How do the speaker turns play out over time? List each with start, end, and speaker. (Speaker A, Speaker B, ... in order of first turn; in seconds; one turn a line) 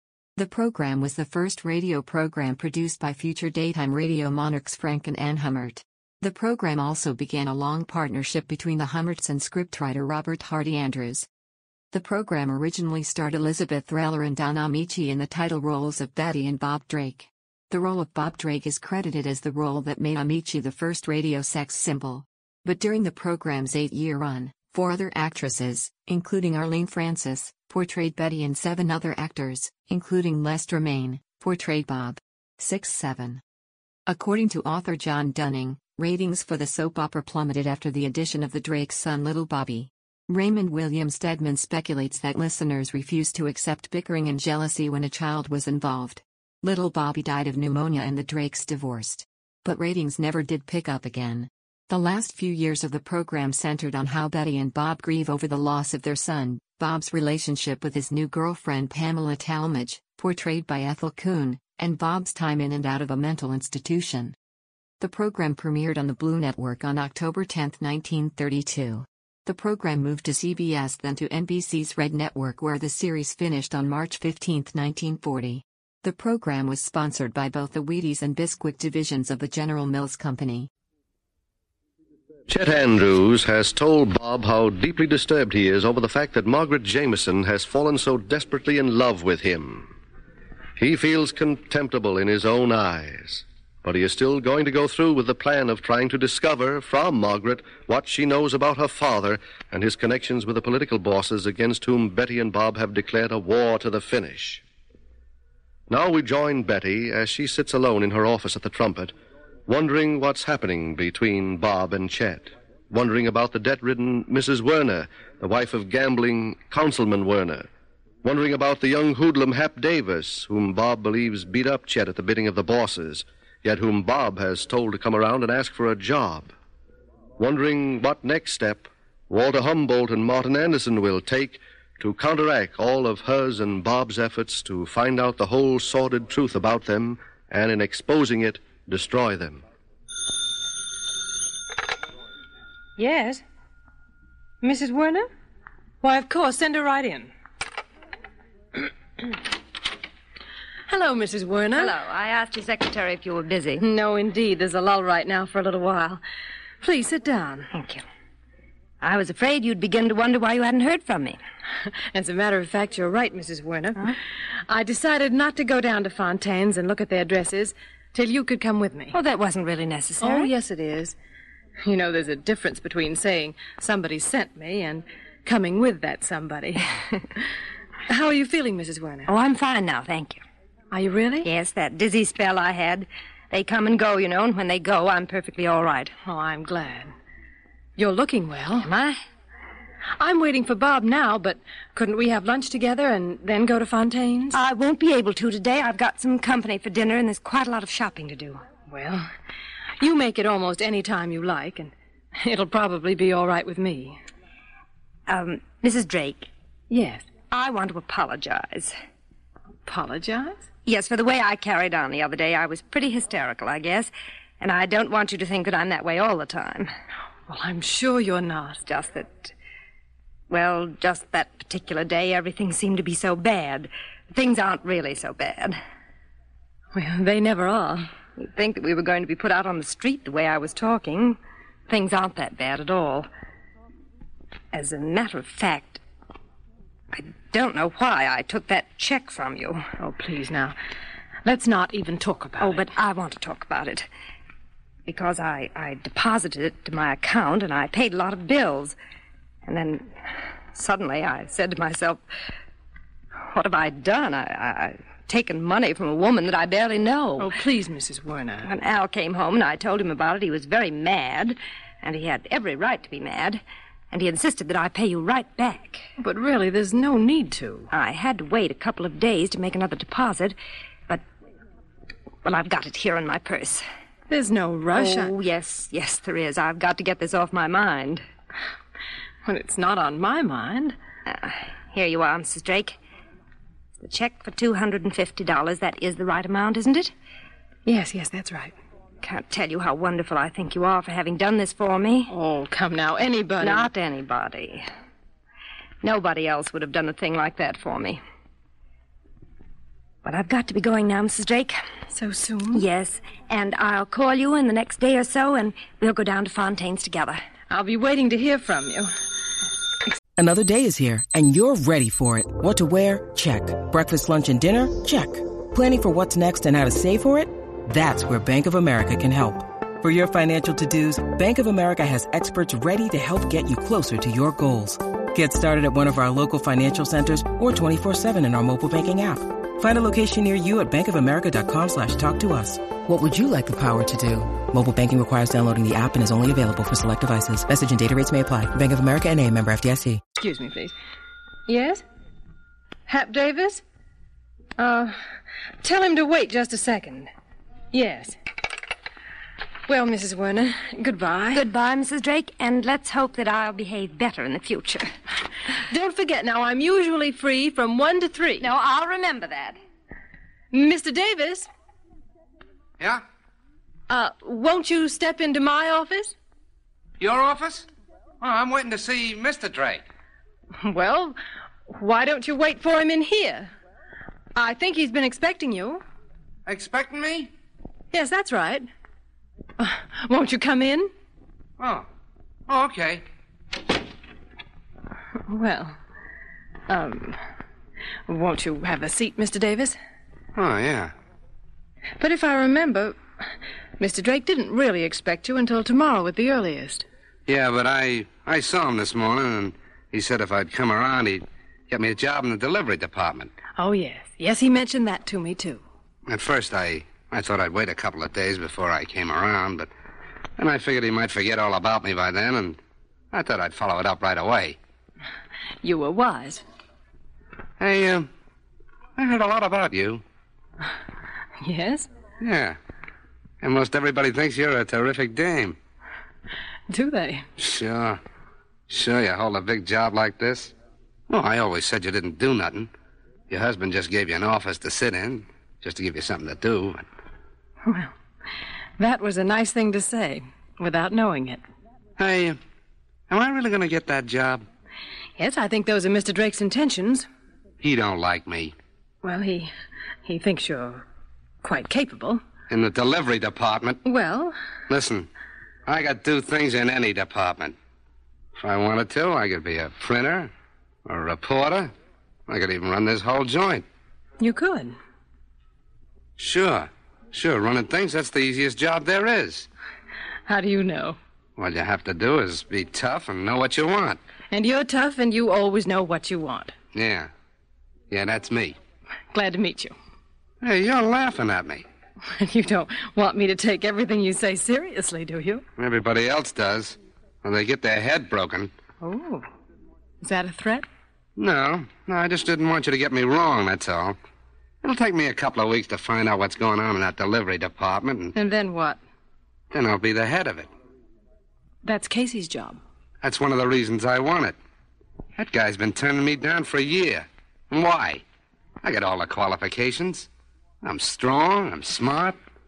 Speaker A: 0.4-11.3
Speaker A: 11.9-33.4
Speaker A: 34.1-64.3
Speaker A: 65.0-80.7
Speaker B: 82.5-89.9
Speaker B: 90.8-104.6
Speaker B: 105.9-109.1
Speaker B: 109.7-117.7
Speaker B: 118.2-126.5
Speaker B: 127.4-139.6
Speaker C: 143.0-143.4
Speaker C: 144.6-145.3
Speaker C: 146.0-147.3
Speaker C: 150.9-151.8
Speaker D: 151.7-153.8
Speaker C: 153.8-156.2
Speaker C: 156.8-157.7
Speaker D: 157.7-158.0
Speaker D: 159.0-161.4
Speaker C: 162.1-164.0
Speaker C: 164.7-169.1
Speaker D: 169.1-170.5
Speaker C: 170.2-171.2
Speaker C: 171.8-177.4
Speaker C: 178.1-179.3
Speaker D: 179.2-180.4
Speaker C: 180.9-181.4
Speaker D: 181.4-186.1
Speaker C: 186.2-187.1
Speaker C: 188.0-188.8
Speaker D: 188.8-189.2
Speaker C: 190.2-194.5
Speaker D: 194.5-198.6
Speaker C: 198.9-199.3
Speaker C: 200.0-204.2
Speaker D: 205.3-206.5
Speaker C: 206.9-207.3
Speaker D: 207.4-208.9
Speaker C: 209.8-210.7
Speaker D: 210.8-216.9
Speaker C: 217.5-218.8
Speaker D: 218.8-219.5
Speaker D: 220.5-225.8
Speaker C: 226.9-228.1
Speaker D: 228.3-231.4
Speaker D: 231.9-233.3
Speaker D: 234.7-236.0
Speaker D: 237.1-239.8
Speaker C: 240.0-240.8
Speaker C: 241.4-242.8
Speaker D: 242.6-244.1
Speaker D: 245.1-248.9
Speaker D: 249.6-252.2
Speaker D: 253.4-257.6
Speaker C: 257.4-258.7
Speaker D: 258.6-266.1
Speaker C: 266.2-267.9
Speaker D: 267.9-270.6
Speaker D: 272.4-273.9
Speaker C: 274.3-275.3
Speaker D: 274.9-278.2
Speaker C: 279.4-280.9
Speaker D: 281.3-283.0
Speaker D: 284.0-287.1
Speaker C: 287.8-288.8
Speaker D: 289.2-292.3
Speaker C: 292.3-293.6
Speaker D: 293.6-294.9
Speaker D: 296.0-298.2
Speaker D: 300.2-301.8
Speaker C: 302.1-302.8
Speaker D: 302.7-307.4
Speaker C: 307.7-309.1
Speaker E: 310.4-340.2
Speaker C: 340.4-340.9
Speaker C: 341.7-342.0
Speaker C: 343.1-343.8
Speaker C: 344.8-345.2
Speaker C: 345.8-347.3
Speaker C: 347.9-348.4
Speaker C: 349.9-351.6
Speaker D: 351.5-355.1
Speaker C: 355.9-358.6
Speaker D: 358.6-359.8
Speaker C: 360.7-361.7
Speaker C: 364.1-366.3
Speaker F: 367.2-367.9
Speaker F: 368.4-370.0
Speaker C: 370.8-371.4
Speaker C: 371.9-373.7
Speaker C: 374.6-376.0
Speaker F: 376.6-377.5
Speaker C: 378.1-378.9
Speaker C: 379.8-381.1
Speaker F: 381.8-382.1
Speaker F: 382.7-383.2
Speaker C: 385.5-386.0
Speaker C: 386.9-387.4
Speaker C: 388.3-390.0
Speaker F: 390.6-391.1
Speaker C: 392.2-393.2
Speaker C: 394.0-397.0
Speaker F: 397.5-403.5
Speaker C: 403.8-405.8
Speaker F: 406.3-409.9
Speaker F: 410.6-412.8
Speaker F: 413.3-414.8
Speaker C: 415.8-416.6
Speaker F: 417.8-418.3
Speaker F: 419.2-420.2
Speaker C: 421.6-422.1
Speaker F: 422.4-422.8
Speaker F: 423.6-425.8
Speaker C: 426.9-427.4
Speaker F: 427.6-428.2
Speaker F: 428.9-430.7
Speaker F: 431.3-432.9
Speaker F: 433.5-437.0
Speaker C: 437.8-438.1
Speaker C: 439.0-441.6
Speaker F: 442.2-442.6
Speaker F: 443.3-444.6
Speaker C: 445.4-447.3
Speaker F: 447.8-448.7
Speaker C: 449.2-449.7
Speaker C: 450.2-451.0
Speaker C: 451.6-452.4
Speaker F: 452.7-454.0
Speaker C: 454.0-454.6
Speaker F: 454.9-455.3
Speaker F: 455.9-457.7
Speaker F: 458.6-460.5
Speaker F: 461.1-461.9
Speaker F: 462.5-463.8
Speaker C: 464.4-464.9
Speaker F: 466.4-469.7
Speaker C: 470.4-471.2
Speaker F: 471.6-474.2
Speaker C: 474.5-476.7
Speaker F: 476.9-477.3
Speaker F: 478.1-478.8
Speaker C: 479.3-479.9
Speaker F: 480.6-481.8
Speaker C: 482.3-485.6
Speaker F: 485.8-488.7
Speaker C: 489.0-489.4
Speaker C: 490.2-490.9
Speaker F: 491.4-494.2
Speaker F: 494.8-498.3
Speaker C: 498.4-499.0
Speaker F: 499.7-500.7
Speaker C: 501.8-502.8
Speaker F: 503.2-504.5
Speaker F: 505.4-508.2
Speaker F: 508.8-510.3
Speaker F: 510.8-512.4